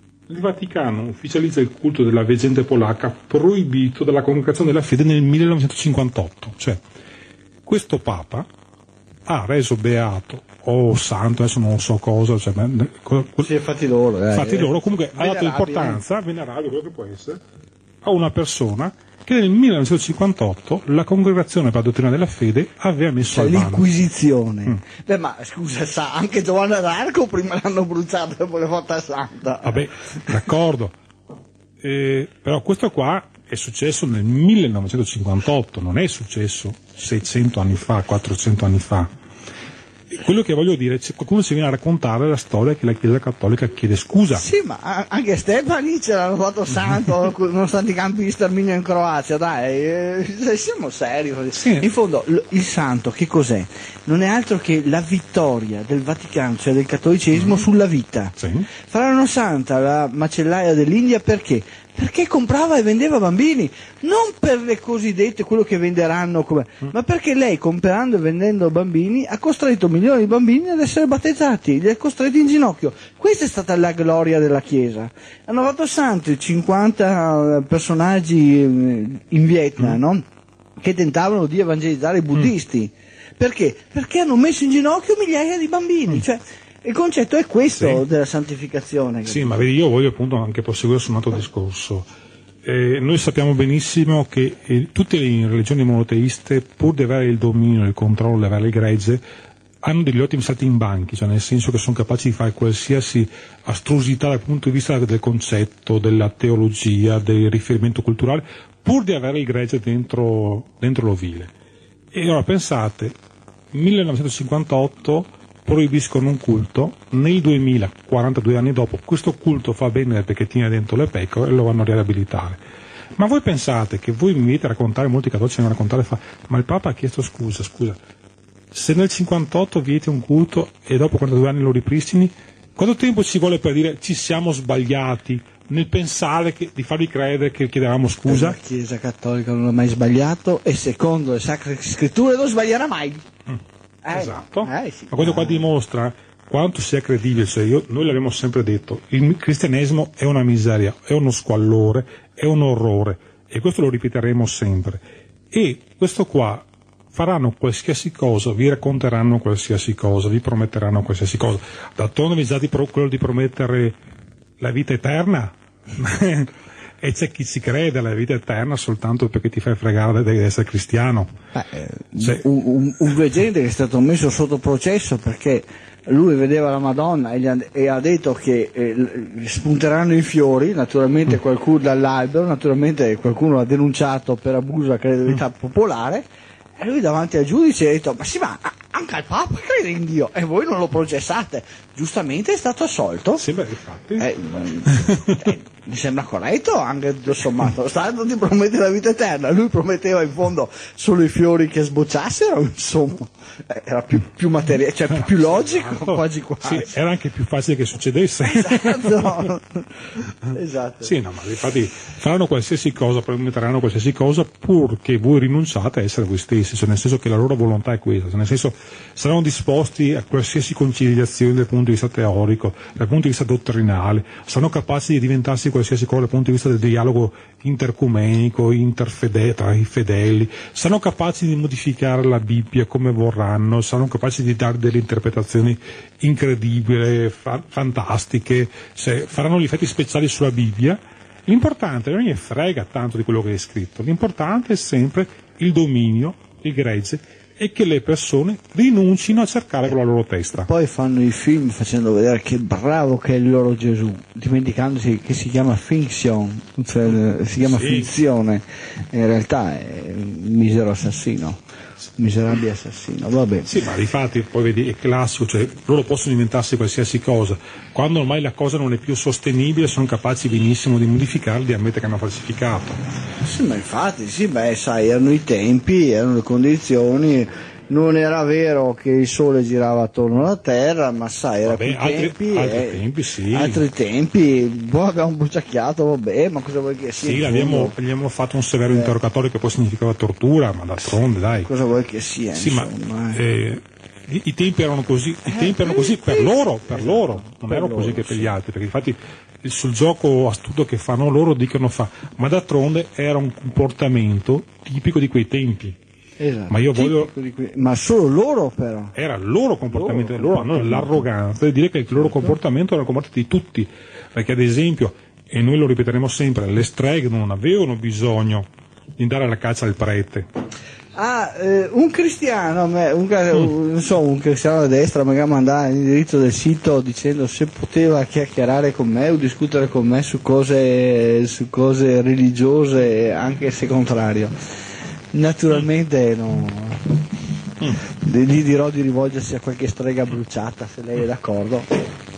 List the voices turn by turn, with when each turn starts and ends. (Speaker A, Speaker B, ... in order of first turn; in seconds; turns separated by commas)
Speaker A: 0.3-6.8, Speaker A: 7.6-8.5, Speaker A: 9.2-13.5, Speaker B: 13.4-16.0, Speaker A: 14.3-17.4, Speaker A: 18.0-23.9, Speaker B: 23.3-29.9, Speaker A: 29.6-30.9, Speaker A: 31.8-39.1, Speaker A: 40.1-44.5, Speaker B: 44.3-80.2, Speaker A: 51.5-51.9, Speaker A: 57.3-57.6, Speaker A: 58.4-58.7, Speaker B: 80.8-89.5, Speaker A: 87.7-88.0, Speaker A: 89.2-92.1, Speaker A: 92.6-99.2, Speaker A: 99.8-111.5, Speaker A: 112.1-113.2, Speaker A: 113.7-122.6, Speaker A: 123.2-128.0, Speaker A: 128.7-138.6, Speaker B: 138.2-143.2, Speaker B: 144.0-145.6, Speaker A: 144.1-164.0, Speaker A: 164.6-171.3, Speaker B: 171.5-186.2, Speaker A: 172.2-172.4, Speaker B: 186.8-193.4, Speaker A: 193.4-194.3, Speaker B: 194.2-206.9, Speaker A: 205.2-209.5, Speaker B: 208.4-209.8, Speaker B: 210.5-211.1, Speaker A: 211.0-250.7, Speaker B: 250.7-261.6, Speaker A: 257.6-258.1, Speaker B: 262.2-263.7, Speaker A: 263.6-273.0, Speaker B: 273.4-283.0, Speaker A: 281.6-283.8, Speaker B: 283.5-287.9, Speaker A: 287.2-291.7, Speaker B: 291.6-293.4, Speaker A: 292.5-306.0, Speaker B: 295.5-298.5, Speaker B: 306.4-309.1, Speaker A: 306.7-307.3, Speaker A: 309.1-320.5, Speaker B: 309.9-311.2, Speaker B: 312.1-312.5, Speaker B: 321.1-334.5, Speaker B: 335.3-337.2, Speaker B: 338.0-341.9